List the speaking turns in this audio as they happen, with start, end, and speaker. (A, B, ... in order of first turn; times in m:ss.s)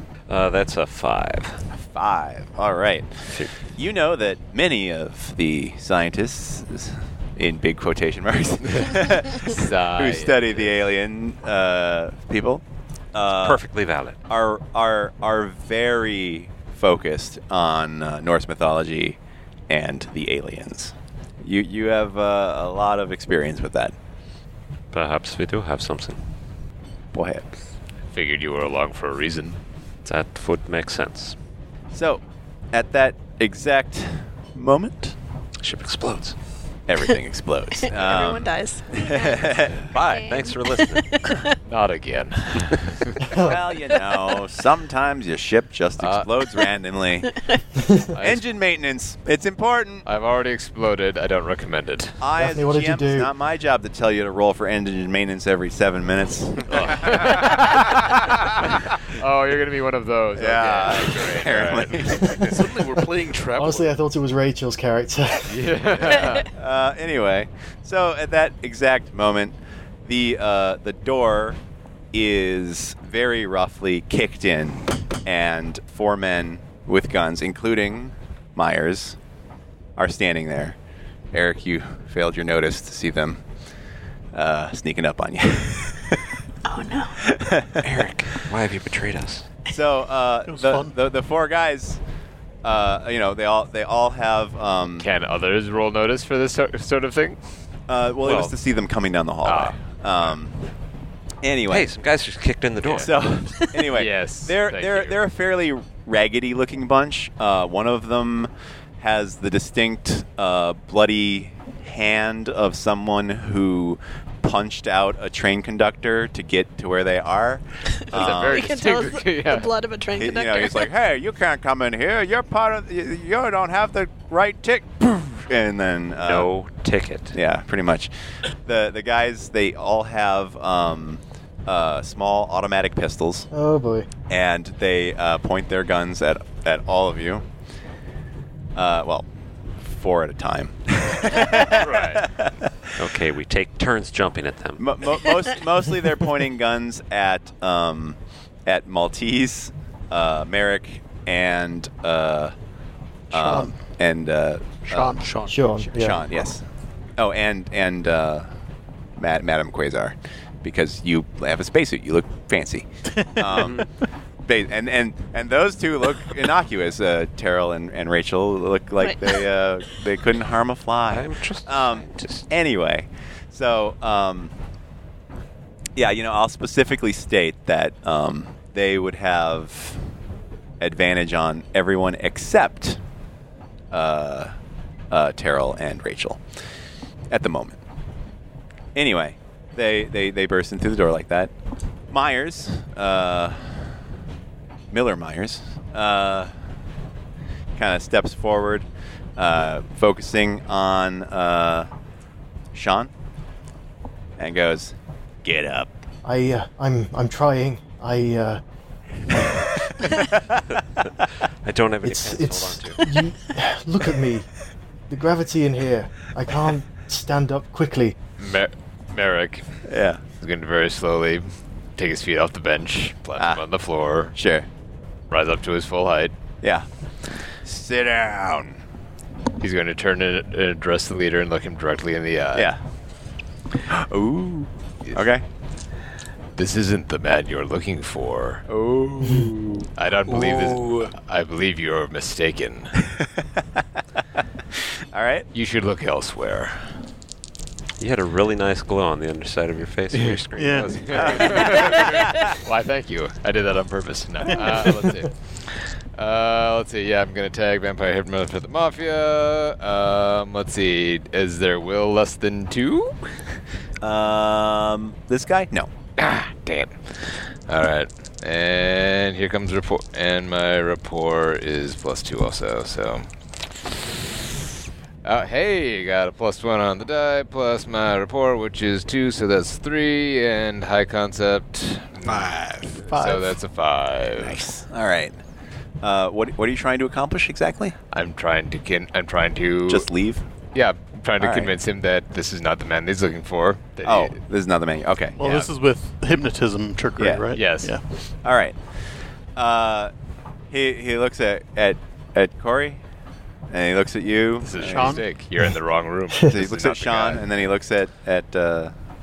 0:00.3-0:01.6 A
0:01.8-0:13.6 B
0:09.4-0:10.7 C
0:13.4-0:14.2 A
0:14.3-0:23.9 B
0:24.9-0:26.2 A
0:27.1-0:27.5 B
0:28.1-0:29.6 C
0:30.0-0:31.4 A
0:31.9-0:35.2 B
0:35.6-0:36.4 A
0:36.9-0:40.4 B
0:37.8-0:41.5 D
0:39.9-0:41.2 A
0:41.7-0:43.3 C
0:43.2-0:43.6 E
0:43.4-0:47.3 B
0:46.0-0:46.3 C
0:47.8-0:48.1 E
0:48.1-0:48.4 C
0:48.2-0:50.1 B
0:50.0-0:52.2 C
0:52.2-0:58.7 B
0:52.4-0:53.3 E
0:56.8-1:02.2 C
1:00.4-1:02.5 B
1:02.2-1:02.4 E
1:02.4-1:03.9 F
1:03.6-1:05.7 E
1:05.5-1:06.5 C
1:06.3-1:11.6 B
1:12.1-1:19.2 B
1:20.0-1:20.8 B
1:21.3-1:23.4 B
1:24.3-1:26.4 B
1:26.7-1:27.2 D
1:27.3-1:27.9 B
1:27.8-1:29.5 A
1:29.7-1:32.0 B
1:30.5-1:30.9 G
1:32.6-1:35.1 B
1:35.0-1:37.4 C
1:37.9-1:40.7 B
1:39.4-1:39.8 C
1:41.4-1:41.9 B
1:41.7-1:43.1 A
1:42.8-1:58.8 B
1:42.8-1:43.1 C
1:43.9-1:45.2 C
1:58.1-1:59.7 C
1:58.2-2:00.9 D
2:00.1-2:06.5 B
2:06.2-2:07.4 A
2:07.3-2:08.1 B
2:08.7-2:13.5 B
2:13.5-2:14.1 E
2:14.3-2:17.5 B
2:18.8-2:19.3 B
2:19.8-2:23.0 B
2:21.7-2:22.2 C
2:23.0-2:25.3 A
2:24.8-2:32.5 B
2:33.3-2:35.2 B
2:33.3-2:33.8 G
2:35.0-2:35.9 F
2:35.5-2:36.2 E
2:35.9-2:36.6 B
2:37.2-2:38.5 B
2:39.2-2:43.9 B
2:43.2-2:43.4 G
2:43.5-2:43.8 F
2:44.4-2:54.5 B
2:49.0-2:49.4 D
2:51.1-2:52.5 A
2:56.0-3:00.0 B
3:00.8-3:03.0 B
3:03.9-3:04.5 B
3:05.1-3:06.4 B
3:07.3-3:07.8 B
3:09.0-3:11.5 B
3:12.1-3:14.0 B
3:14.9-3:16.5 B
3:17.8-3:18.9 B
3:19.4-3:21.9 B
3:22.7-3:23.1 B
3:24.4-3:25.9 B
3:26.2-3:28.6 E
3:31.6-3:33.0 A
3:32.0-3:34.5 E
3:35.1-3:38.2 E
3:38.4-3:39.6 C
3:39.8-3:40.2 B
3:40.4-3:44.3 C
3:43.4-3:43.6 B
3:44.3-3:44.7 B
3:45.3-3:46.3 C
3:46.6-3:46.9 B
3:47.6-3:48.8 B
3:49.6-3:52.7 C
3:53.9-3:55.4 B
3:56.6-3:58.7 C
3:58.7-3:59.9 B
4:00.0-4:02.9 C
4:00.3-4:01.1 F
4:03.0-4:04.0 B
4:05.1-4:05.5 B
4:05.5-4:06.9 C
4:08.0-4:12.3 A
4:10.6-4:11.6 G
4:11.0-4:23.2 C
4:11.2-4:12.4 B
4:24.0-4:25.9 B
4:26.2-4:33.3 C
4:35.2-4:42.6 C
4:42.2-4:43.1 F
4:43.1-4:43.6 G
4:43.1-4:44.6 C
4:44.4-4:45.4 B
4:46.0-4:48.0 B
4:48.1-4:50.1 C
4:49.9-4:50.4 B
4:50.7-4:54.4 C
4:51.4-4:51.7 B
4:54.0-4:55.4 B
4:55.4-4:58.0 G
4:55.4-4:55.7 C
4:57.5-4:57.9 C
4:58.4-4:58.8 B
4:59.6-5:00.1 B
5:00.7-5:03.0 B
5:03.7-5:05.2 B
5:04.6-5:07.5 C
5:04.8-5:05.3 G
5:06.4-5:08.9 B